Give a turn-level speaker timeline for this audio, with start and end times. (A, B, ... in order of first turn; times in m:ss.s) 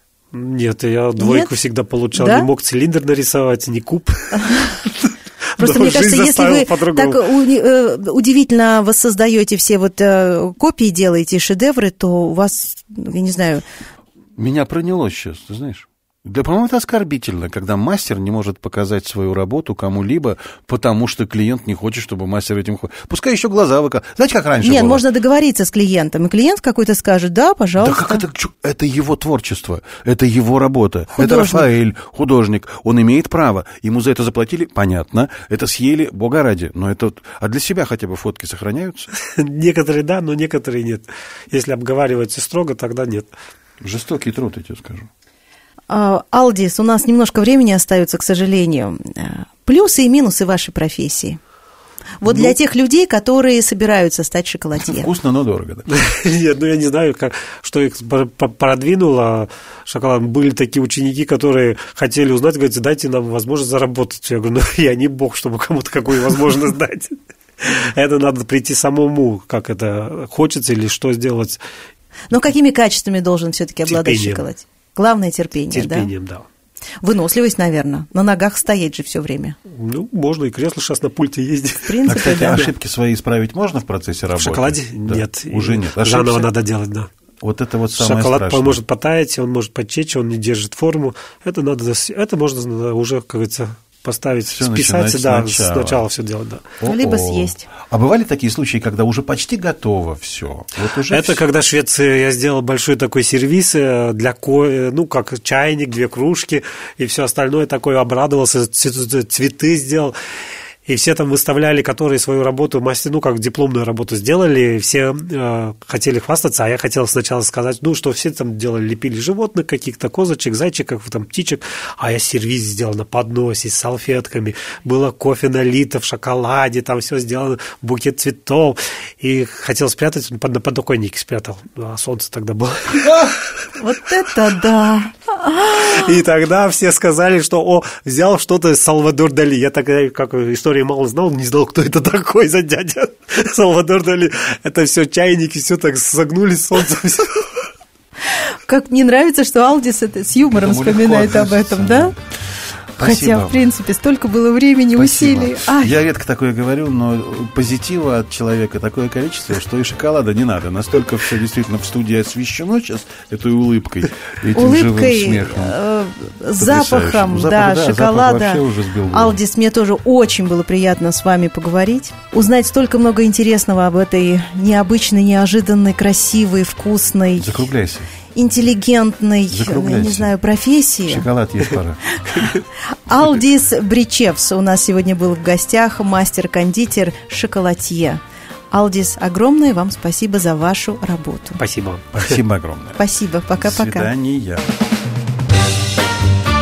0:00.3-0:07.2 A
0:01.2-0:01.5 B
0:02.1-0:02.5 B
0:05.6-0:13.6 B
0:14.4-0:25.0 C
0:24.6-0:28.2 B
0:27.8-0:39.1 C
0:31.2-0:31.7 B
0:39.2-0:43.3 A
0:43.8-0:45.1 C
0:45.9-0:51.4 B
0:52.2-0:55.1 B
0:52.3-0:52.6 A
0:54.9-0:55.9 C
0:55.9-1:11.6 A
1:12.3-1:16.1 B
1:13.9-1:14.5 A
1:15.7-1:16.5 A
1:17.0-1:19.6 B
1:19.7-1:22.7 A
1:21.9-1:22.7 B
1:22.1-1:26.5 C
1:24.4-1:27.1 A
1:27.4-1:28.8 C
1:27.9-1:36.7 A
1:34.5-1:36.0 C
1:36.8-1:41.4 C
1:36.8-1:37.7 B
1:41.1-1:50.2 A
1:50.9-2:13.4 A
2:13.8-2:16.2 B
2:15.7-2:27.6 A
2:28.7-2:32.2 B
2:30.6-2:32.2 C
2:33.0-2:33.6 C
2:33.0-2:35.9 B
2:35.0-2:45.8 C
2:44.5-2:57.6 B
2:46.6-2:49.4 C
2:57.4-2:58.1 C
2:58.4-3:01.3 B
2:59.5-3:00.3 C
3:01.1-3:02.0 C
3:02.3-3:02.6 A
3:02.4-3:11.6 B
3:11.6-3:12.4 A
3:12.1-3:13.0 C
3:13.0-3:14.1 B
3:13.6-3:14.7 C